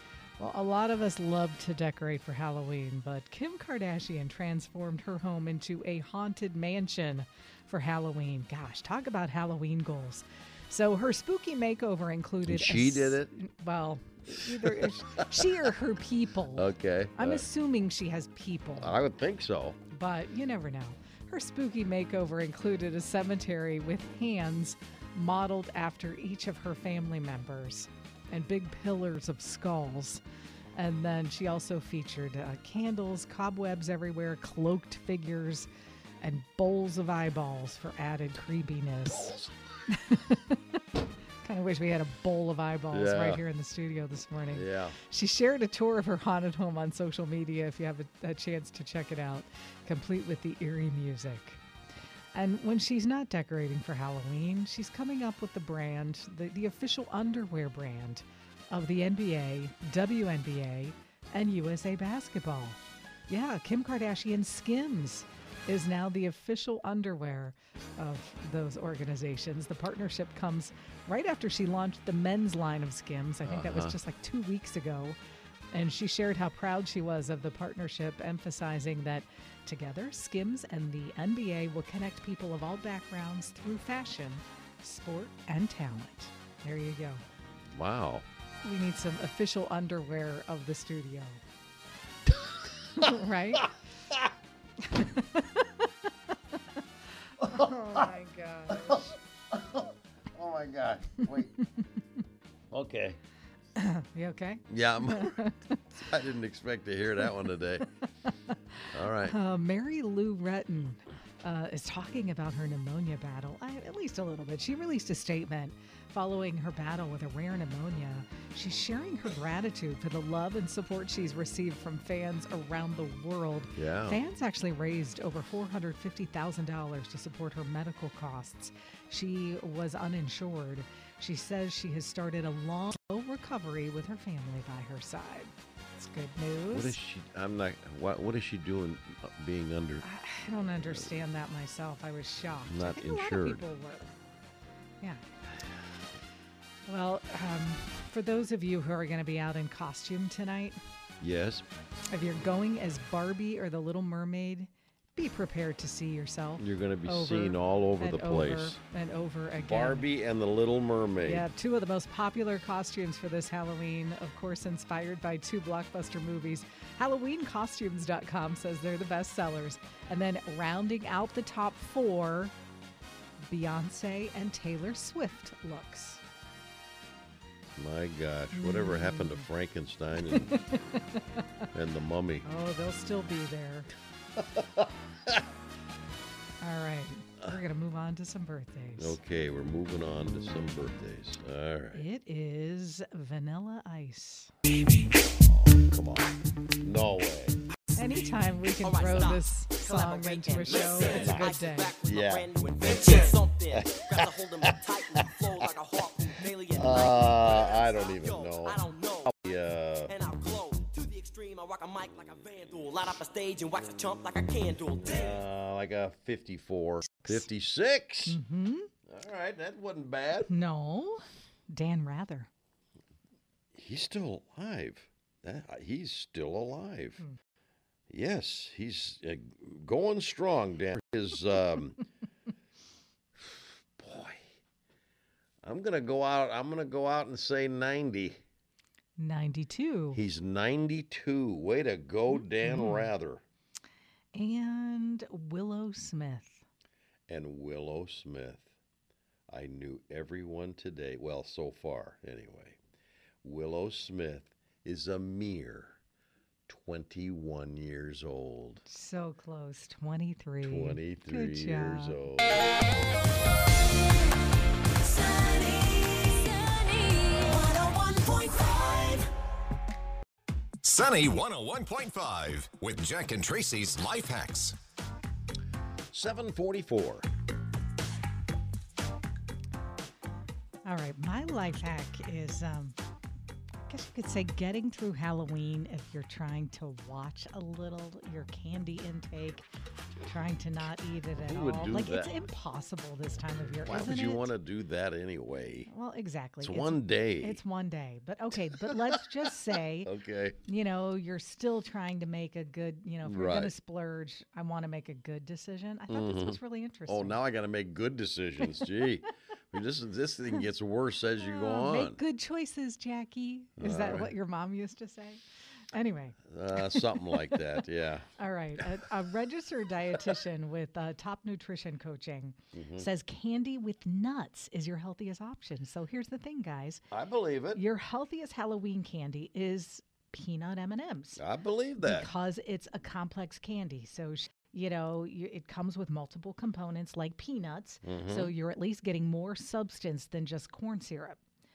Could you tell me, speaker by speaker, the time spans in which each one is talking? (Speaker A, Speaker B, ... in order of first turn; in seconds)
Speaker A: 0.4-19.0, 19.9-30.2, 30.8-35.7, 36.2-39.4, 39.9-40.8, 41.4-51.6, 52.3-75.2, 75.7-87.2, 88.6-91.4, 92.9-93.7, 94.8-95.9, 97.4-99.1, 103.8-106.0, 107.8-137.0, 140.0-144.1, 146.8-150.8, 152.1-160.1, 161.2-172.5, 173.5-176.2, 178.5-179.4, 180.3-181.0, 182.4-183.9, 186.6-189.2, 191.9-194.5, 197.9-201.9, 217.1-217.4, 218.2-218.9, 220.5-222.5, 239.2-240.2, 242.3-243.1, 244.3-246.7, 258.9-262.2, 280.8-283.0, 283.9-289.7, 290.2-294.5, 295.9-300.1, 300.6-307.4, 311.4-315.4, 315.9-317.6, 318.4-327.0, 327.7-331.4, 332.0-341.4
Speaker B: 12.4-13.3, 14.4-15.2, 16.5-17.4, 18.8-19.8, 42.9-43.4, 44.5-45.0, 73.4-74.0, 87.7-88.2, 98.7-101.5, 102.7-103.2, 104.7-105.4, 106.0-107.8, 108.9-109.3, 123.7-124.2, 136.7-140.0, 140.7-141.1, 142.7-143.6, 151.2-151.6, 156.6-158.8, 159.6-161.5, 177.8-180.5, 181.7-182.4, 184.5-185.3, 189.0-192.0, 195.4-197.6, 200.9-204.7, 206.7-210.2, 212.2-212.6, 214.9-218.4, 219.1-220.5, 223.7-227.2, 228.1-232.0, 233.4-234.4, 235.6-238.4, 240.1-243.4, 247.3-248.7, 249.5-252.8, 253.4-256.0, 256.7-258.9, 260.6-262.6, 276.1-277.3, 291.4-292.4, 293.9-295.9, 296.6-297.6, 300.0-300.6, 303.2-303.7, 306.1-312.2, 313.8-314.3, 316.5-318.3, 322.7-323.1, 327.1-327.8, 331.4-332.3, 338.0-338.5
Speaker C: 198.8-209.3, 210.1-215.4, 265.3-266.3, 267.4-269.3
Speaker D: 270.8-274.8